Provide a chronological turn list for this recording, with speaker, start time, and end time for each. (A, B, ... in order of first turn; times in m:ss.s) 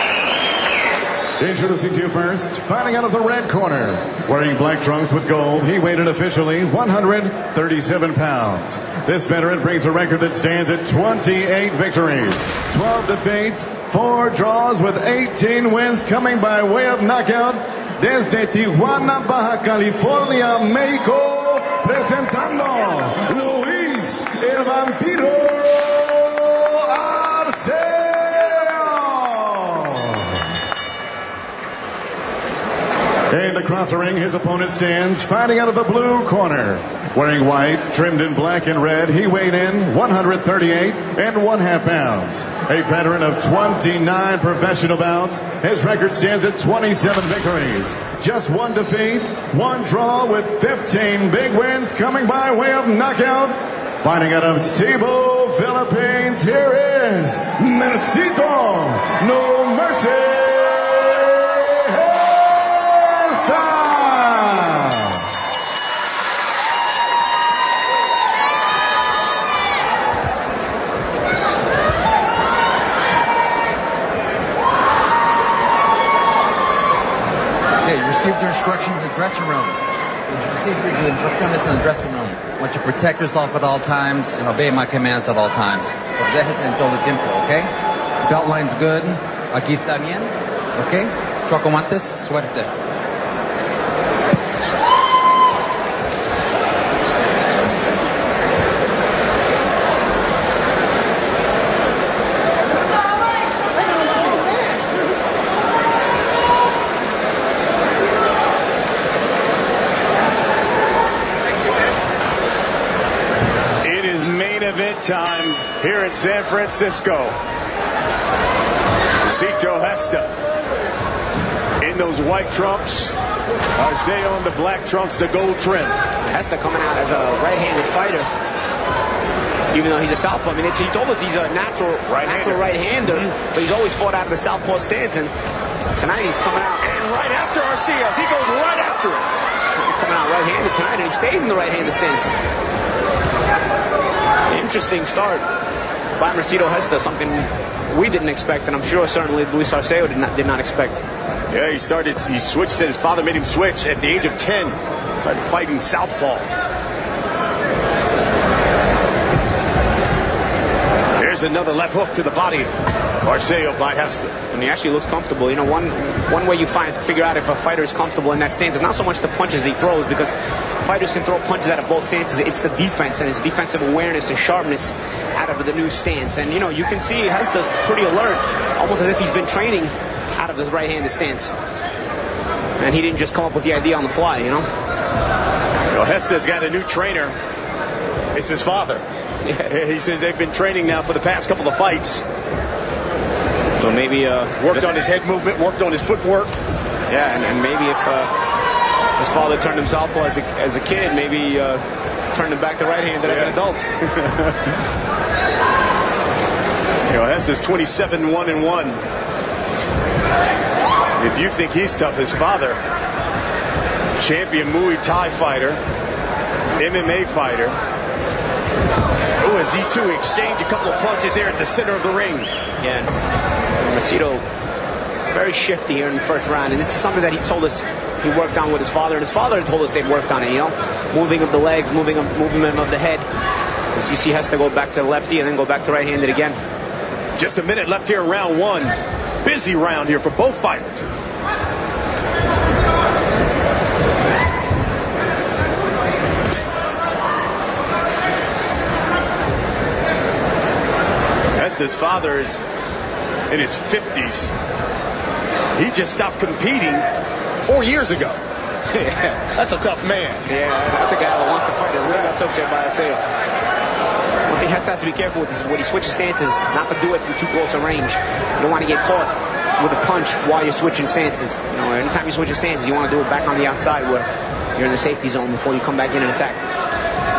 0:01.4-0:30.6 A
0:33.3-1:05.3 A
1:17.8-1:27.7 B
1:28.2-1:32.7 B
1:53.8-1:57.4 C
1:59.2-2:00.3 C
2:01.8-2:03.2 C
2:03.8-2:06.0 C
2:06.2-2:08.3 D
2:09.7-2:15.3 D
2:12.1-2:13.3 C
2:16.0-2:16.8 D
2:16.8-2:19.3 C
2:19.7-2:22.3 D
2:24.5-2:25.5 D
2:26.2-2:31.0 D
2:31.5-2:36.5 C
2:41.2-2:42.7 C
2:43.2-2:44.4 C
2:44.5-3:01.5 D
3:02.8-3:04.7 D
3:05.9-3:07.4 C
3:08.4-3:09.0 C
3:09.6-3:12.2 C
3:13.8-3:14.9 D
3:14.6-3:16.6 C
3:17.1-3:18.3 D
3:19.2-3:24.2 D
3:23.3-3:23.5 C
3:27.1-3:29.0 C
3:31.2-3:32.8 C
3:34.2-3:35.8 C
3:36.8-3:37.8 C
3:39.4-3:42.5 C
3:42.8-3:43.1 D
3:43.8-3:44.4 D
3:45.3-3:53.3 D
3:53.9-3:56.6 D
3:57.4-4:01.0 C
4:11.6-4:12.6 C
4:13.5-4:14.6 C
4:15.7-4:17.1 C
4:17.6-4:18.4 C
4:18.9-4:19.4 D
4:19.4-4:20.5 C
4:20.5-4:23.2 D
4:24.5-4:36.6 D